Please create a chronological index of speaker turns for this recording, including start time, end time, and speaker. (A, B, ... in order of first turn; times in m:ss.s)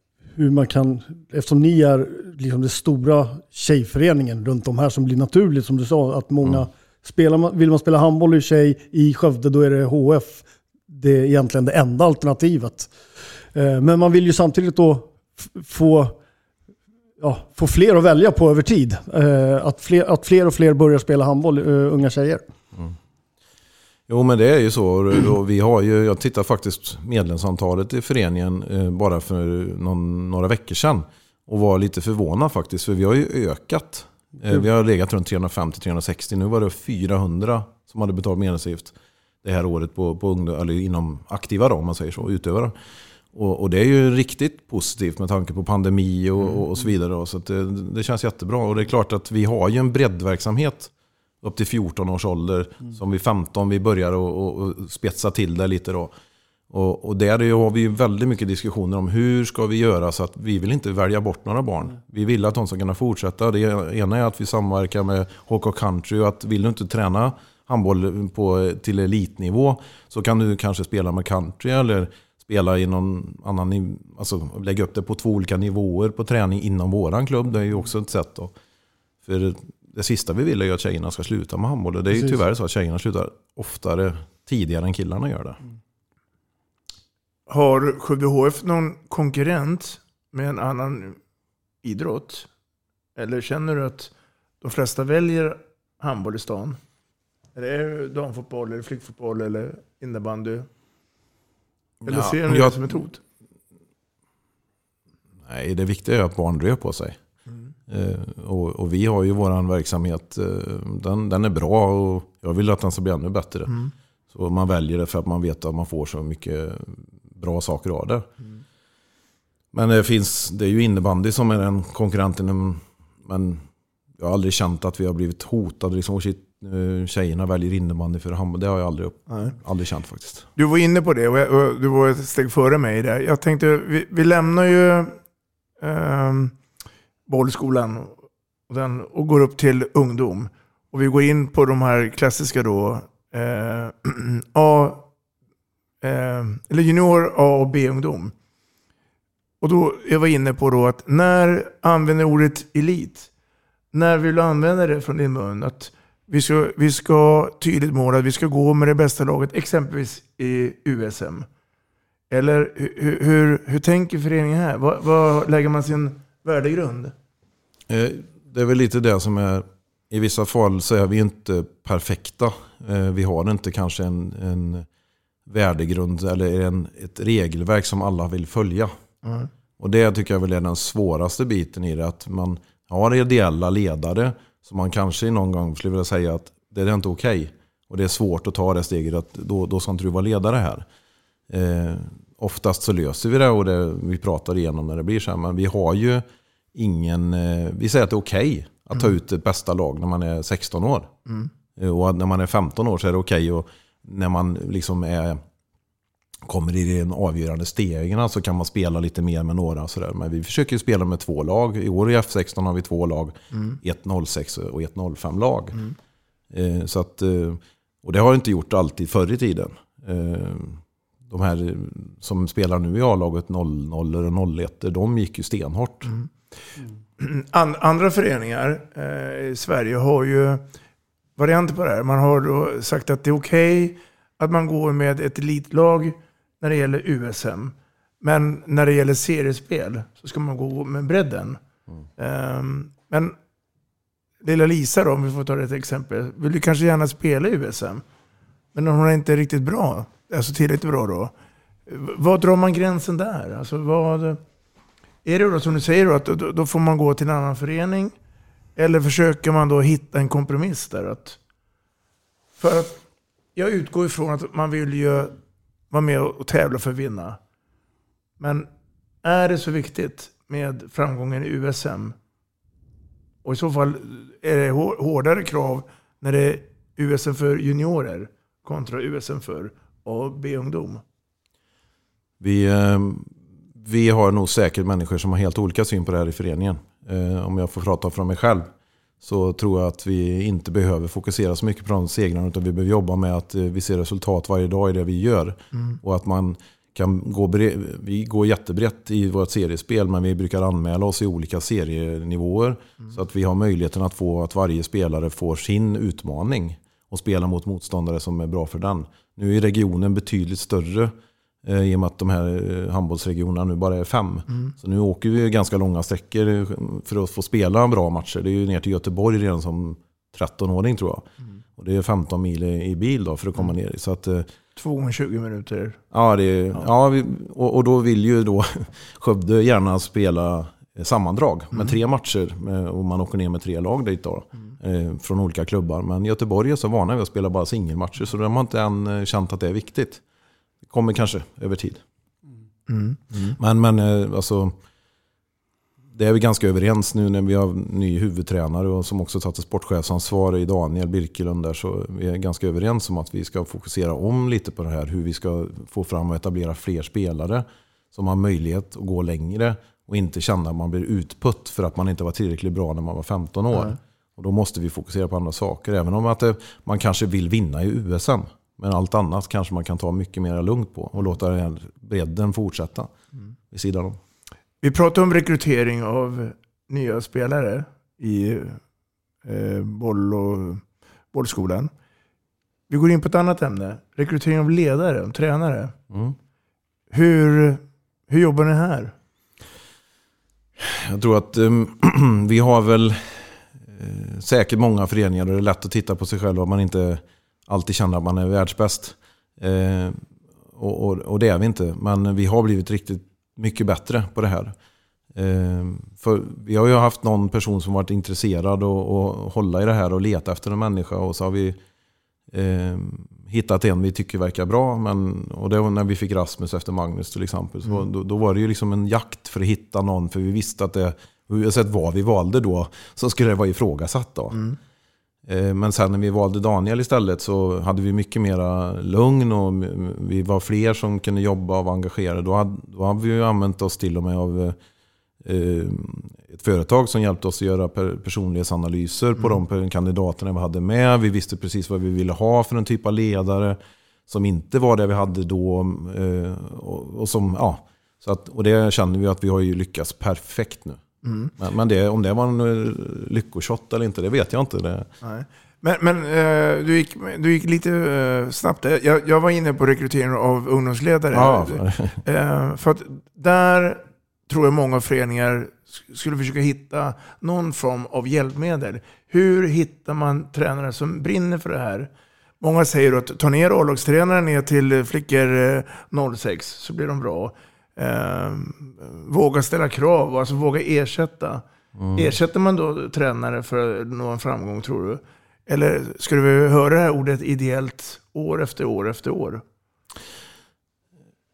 0:00.4-0:12.9 A
0:13.5-0:16.2 A
0:17.2-0:22.4 A
0:24.1-0:42.7 B
0:43.3-0:50.9 B
0:51.4-0:56.1 B
0:56.7-1:18.5 B
1:19.2-1:25.6 B
1:27.5-1:31.2 C
1:31.8-1:32.5 C
1:33.2-1:36.8 C
1:37.5-1:40.7 C
1:42.0-1:42.8 B
1:42.0-1:43.2 C
1:45.4-1:47.2 B
1:47.9-1:53.8 B
1:54.3-1:58.3 B
1:59.7-2:03.6 B
2:04.2-2:10.5 B
2:09.3-2:09.5 C
2:10.6-2:15.2 C
2:15.8-2:16.6 C
2:17.3-2:18.2 C
2:18.7-2:25.1 C
2:26.0-2:28.3 C
2:29.6-2:33.3 C
2:33.9-2:41.5 C
2:42.3-2:47.1 C
2:47.9-2:54.9 B
2:55.4-2:58.9 B
2:59.2-2:59.5 C
2:59.8-3:10.8 B
3:11.5-3:21.1 B
3:21.8-3:25.4 B
3:26.4-3:35.8 B
3:36.5-3:46.1 B
3:47.2-3:50.6 C
3:51.4-4:01.6 C
4:02.2-4:03.3 C
4:04.4-4:08.0 C
4:08.7-4:11.3 C
4:11.9-4:14.4 C
4:15.2-4:18.1 C
4:18.8-4:21.4 C
4:22.6-4:23.0 C
4:23.6-4:25.4 C
4:25.9-4:27.4 C
4:28.4-4:28.7 C
4:29.2-4:32.1 C
4:33.4-4:41.0 C
4:42.4-4:48.7 B
4:49.2-5:11.1 B
5:11.6-5:24.5 B
5:24.8-5:26.0 C
5:26.1-5:40.2 B
5:40.8-5:42.0 B
5:42.9-5:43.6 C
5:43.5-5:44.8 B
5:46.1-6:13.1 B
6:13.7-6:14.2 B
6:14.8-6:18.8 C
6:19.4-6:20.8 C
6:21.3-6:21.9 C
6:22.9-6:25.9 C
6:26.1-6:26.4 B
6:27.1-6:29.1 C
6:30.8-6:40.2 B
6:40.7-6:44.7 B
6:45.3-6:51.8 B
6:52.5-7:04.6 B
7:05.4-7:14.8 B
7:15.4-7:31.0 B
7:31.2-7:31.5 C
7:31.6-7:35.1 B
7:35.2-7:52.1 C
7:41.3-7:42.2 B
7:52.6-8:09.6 C
8:02.0-8:02.3 B